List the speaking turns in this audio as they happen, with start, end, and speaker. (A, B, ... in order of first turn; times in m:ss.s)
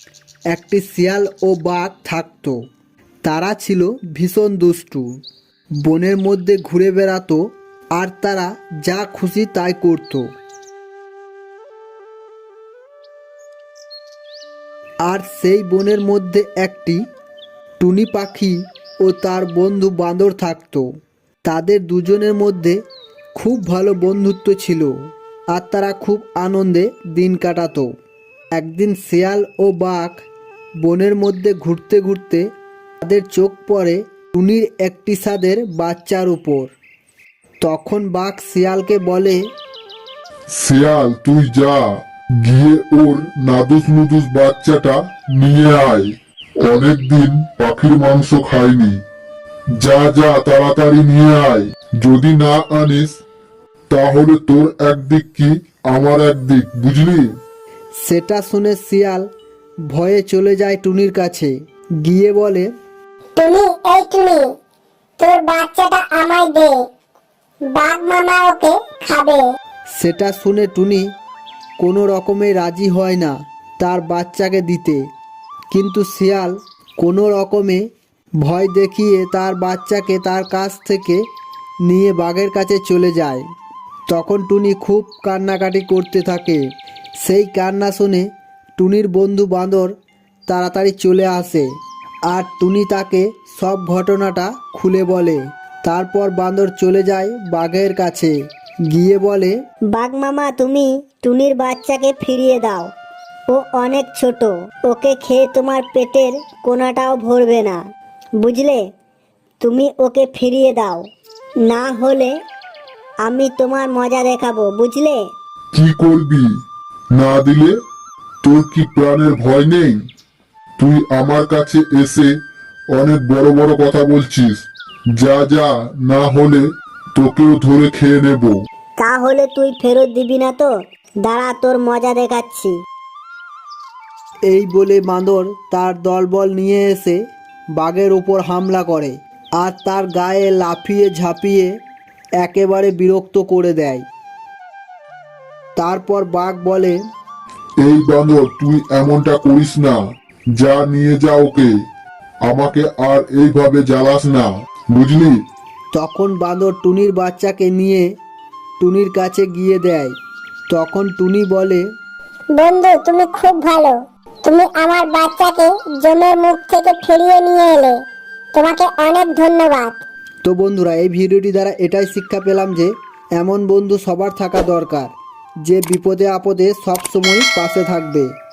0:00.5-0:02.6 A
0:03.2-0:05.1 A
0:05.8-0:07.4 A
0:08.0-0:10.3 A
0:15.0-0:17.0 A
0:17.8-0:20.9 A
0:21.4-0:22.8 A
0:23.3-0:24.9 A
0:25.5-0:27.9 A
0:28.6-0:30.2 A
0:30.8-0:32.5 A
0:33.0-0:36.7 A
0:37.6-0:39.4 A
0:40.5-0:41.8 B
0:42.4-0:49.0 B
0:49.8-0:53.2 B
0:53.9-0:57.4 B
0:58.0-0:59.3 A
0:59.9-1:01.5 A
1:02.0-1:02.7 A
1:03.4-1:04.4 C
1:05.2-1:06.8 C
1:07.7-1:09.4 C
1:10.0-1:11.0 A
1:11.8-1:15.0 A
1:15.7-1:17.8 A
1:18.4-1:21.2 A
1:21.8-1:23.4 A
1:24.1-1:26.6 A
1:27.2-1:28.2 A
1:28.8-1:29.9 A
1:30.5-1:31.6 A
1:32.3-1:38.3 A
1:38.9-1:39.5 A
1:39.9-1:42.9 D
1:43.5-1:47.8 D
1:48.4-1:48.8 D
1:49.6-1:51.1 D
1:51.6-1:52.3 D
1:53.2-1:55.2 D
1:55.7-1:56.5 B
1:57.1-1:57.8 B
1:58.4-2:00.0 B
2:00.8-2:02.3 B
2:02.9-2:08.6 B
2:09.0-2:10.7 D
2:11.2-2:12.7 D
2:14.5-2:17.2 A
2:17.8-2:21.7 A
2:22.4-2:24.0 A
2:25.8-2:27.0 A
2:27.8-2:30.0 B
2:30.6-2:31.7 B
2:32.4-2:35.4 B
2:35.9-2:38.1 A
2:38.8-2:40.1 A
2:40.7-2:41.8 A
2:42.6-2:48.0 C
2:48.5-2:50.0 C
2:50.4-2:55.1 A
2:55.6-2:58.3 A